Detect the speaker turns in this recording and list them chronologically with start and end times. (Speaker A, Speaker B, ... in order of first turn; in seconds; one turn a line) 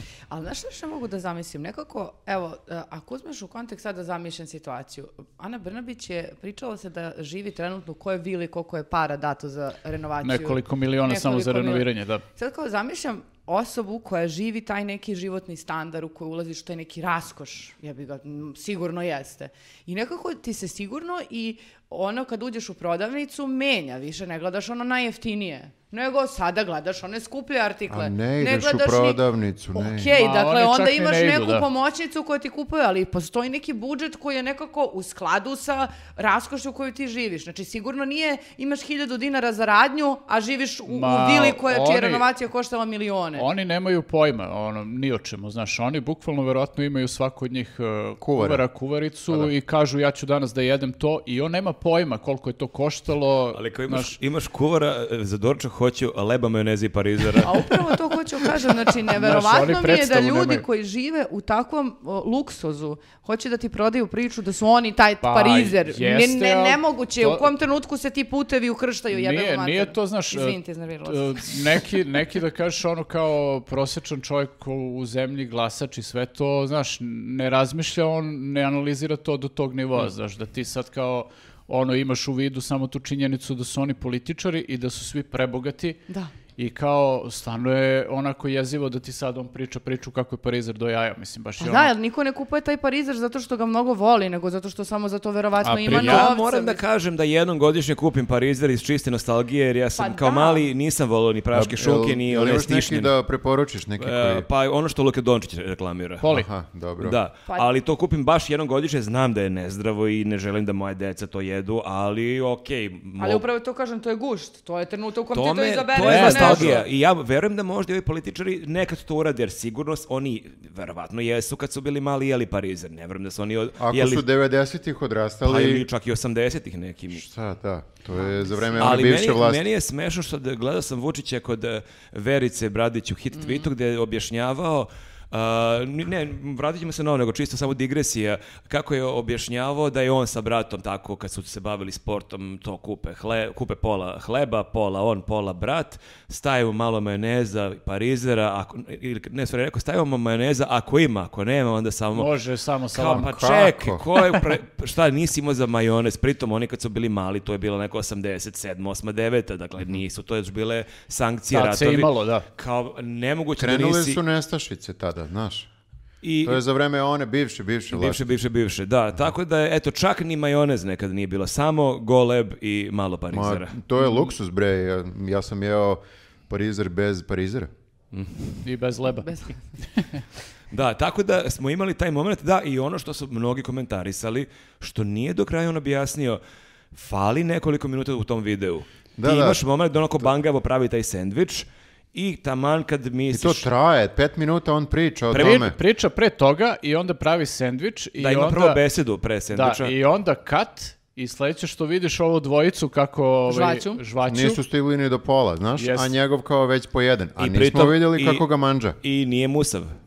Speaker A: 0.3-29.2
Speaker B: 10.2-12.2
Speaker C: 27.9-30.1
Speaker A: 29.7-43.5
Speaker B: 30.1-31.6
Speaker B: 40.9-42.3
Speaker B: 43.4-54.1
Speaker C: 48.2-48.6
Speaker D: 53.5-57.7
Speaker A: 57.4-71.6
Speaker B: 59.0-60.6
Speaker B: 65.2-67.5
Speaker B: 69.1-86.0
Speaker B: 86.6-91.9
Speaker A: 91.6-96.8
Speaker B: 95.6-96.3
Speaker D: 95.9-103.1
Speaker A: 100.0-100.7
Speaker C: 101.5-104.5
Speaker D: 104.0-106.3
Speaker B: 106.2-106.5
Speaker C: 106.3-107.2
Speaker D: 107.0-113.4
Speaker A: 113.2-116.9
Speaker D: 115.3-124.2
Speaker B: 116.0-116.8
Speaker C: 123.8-125.9
Speaker D: 125.4-127.2
Speaker C: 127.1-129.6
Speaker A: 128.1-129.0
Speaker D: 128.8-152.3
Speaker A: 133.3-133.7
Speaker B: 152.1-153.5
Speaker D: 152.9-164.2
Speaker C: 153.1-154.0
Speaker B: 161.5-162.4
Speaker C: 163.6-165.7
Speaker D: 166.2-166.6
Speaker C: 166.4-168.2
Speaker D: 167.9-173.8
Speaker C: 173.3-177.7
Speaker D: 178.1-178.6
Speaker B: 178.6-180.2
Speaker D: 180.7-186.4
Speaker D: 186.9-193.7
Speaker C: 189.2-189.6
Speaker C: 193.3-195.8
Speaker D: 195.3-195.7
Speaker B: 195.3-198.8
Speaker D: 198.2-199.9
Speaker B: 199.5-204.6
Speaker A: 203.5-204.0
Speaker C: 204.3-209.0
Speaker B: 205.8-206.1
Speaker D: 207.4-208.4
Speaker D: 209.0-209.9